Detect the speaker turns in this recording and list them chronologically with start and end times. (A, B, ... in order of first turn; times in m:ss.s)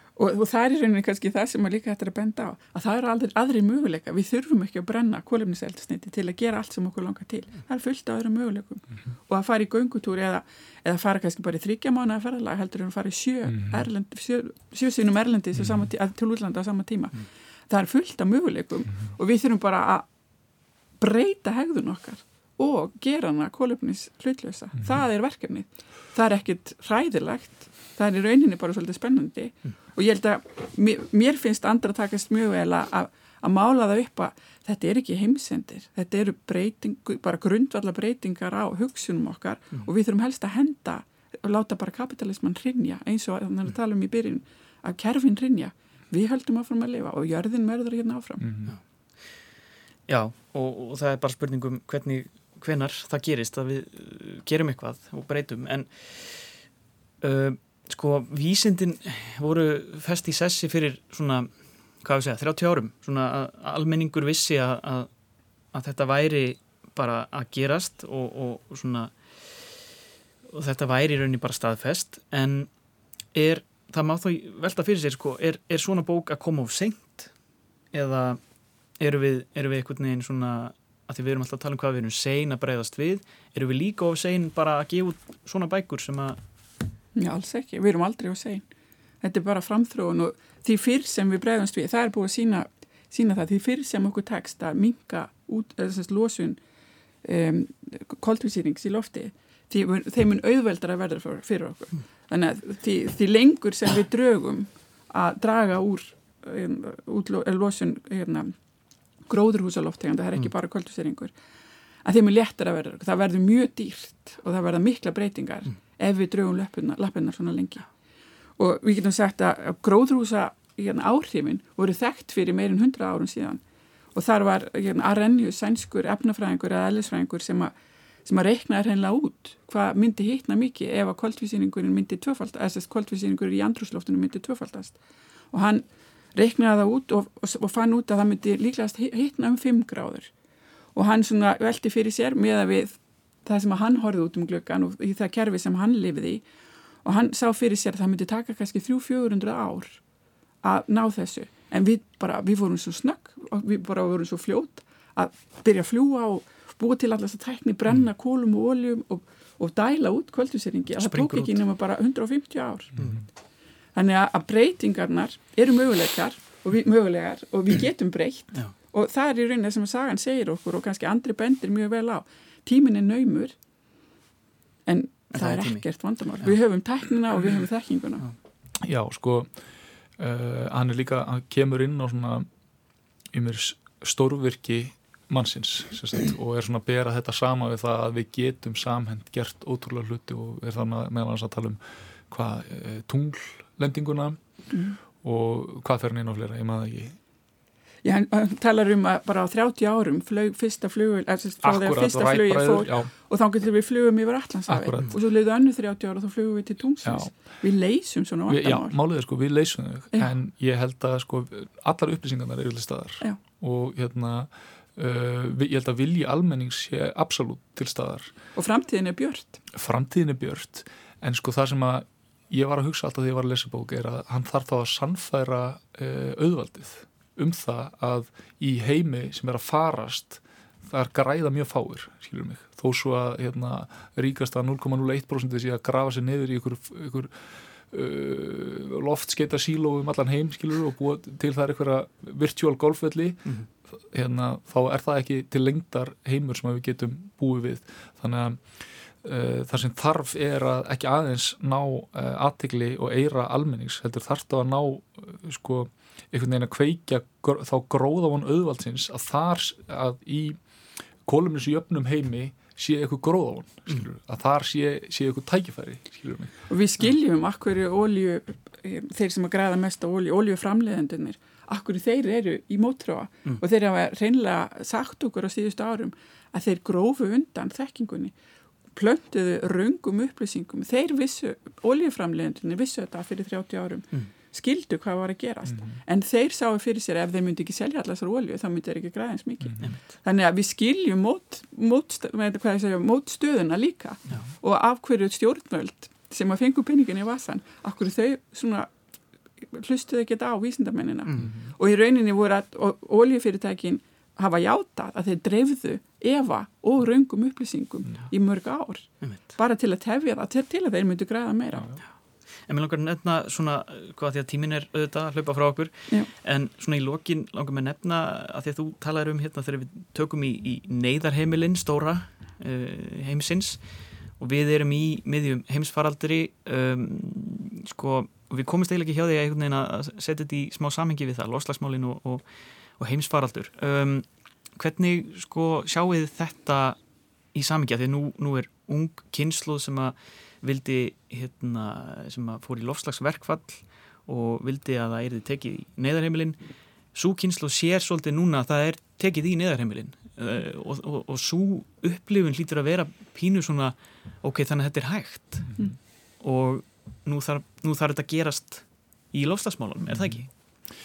0:00.2-0:20.1 A
0:13.5-0:13.8 B
0:15.6-0:15.9 B
0:21.0-0:48.4 A
0:48.4-0:48.8 B
0:50.1-0:56.6 C
0:57.2-1:05.1 C
1:05.7-1:09.7 C
1:10.5-1:12.7 C
1:13.3-1:17.3 C
1:17.9-1:18.4 C
1:19.0-1:26.4 C
1:27.2-1:28.6 A
1:29.2-1:36.6 A
1:37.2-1:48.5 A
1:49.3-1:51.3 A
1:52.0-1:57.9 A
1:58.6-2:03.6 A
2:04.2-2:07.7 A
2:08.2-2:15.0 A
2:15.5-2:20.3 A
2:21.0-2:26.4 A
2:27.0-2:30.0 A
2:30.6-2:43.1 A
2:41.0-2:41.6 C
2:43.0-2:43.2 B
2:44.0-2:53.6 A
2:54.9-2:58.3 A
2:55.3-2:55.8 C
2:58.8-2:59.5 B
3:00.2-3:02.5 B
3:03.3-3:14.4 B
3:14.7-3:15.0 A
3:15.2-3:17.2 B
3:18.0-3:28.9 A
3:21.6-3:23.1 B
3:24.7-3:25.2 B
3:27.0-3:27.3 B
3:28.5-3:38.3 B
3:38.6-3:39.6 A
3:39.7-4:20.6 B
4:21.2-4:26.5 B
4:26.7-4:38.3 A
4:39.0-4:58.9 A
4:45.7-4:46.0 B
4:49.6-4:49.9 B
4:59.6-5:11.9 A
5:01.4-5:01.7 B
5:12.7-5:23.8 C
5:24.4-5:32.4 C
5:33.0-5:37.0 C
5:37.5-5:46.6 C
5:47.1-5:55.7 C
5:56.4-6:00.5 C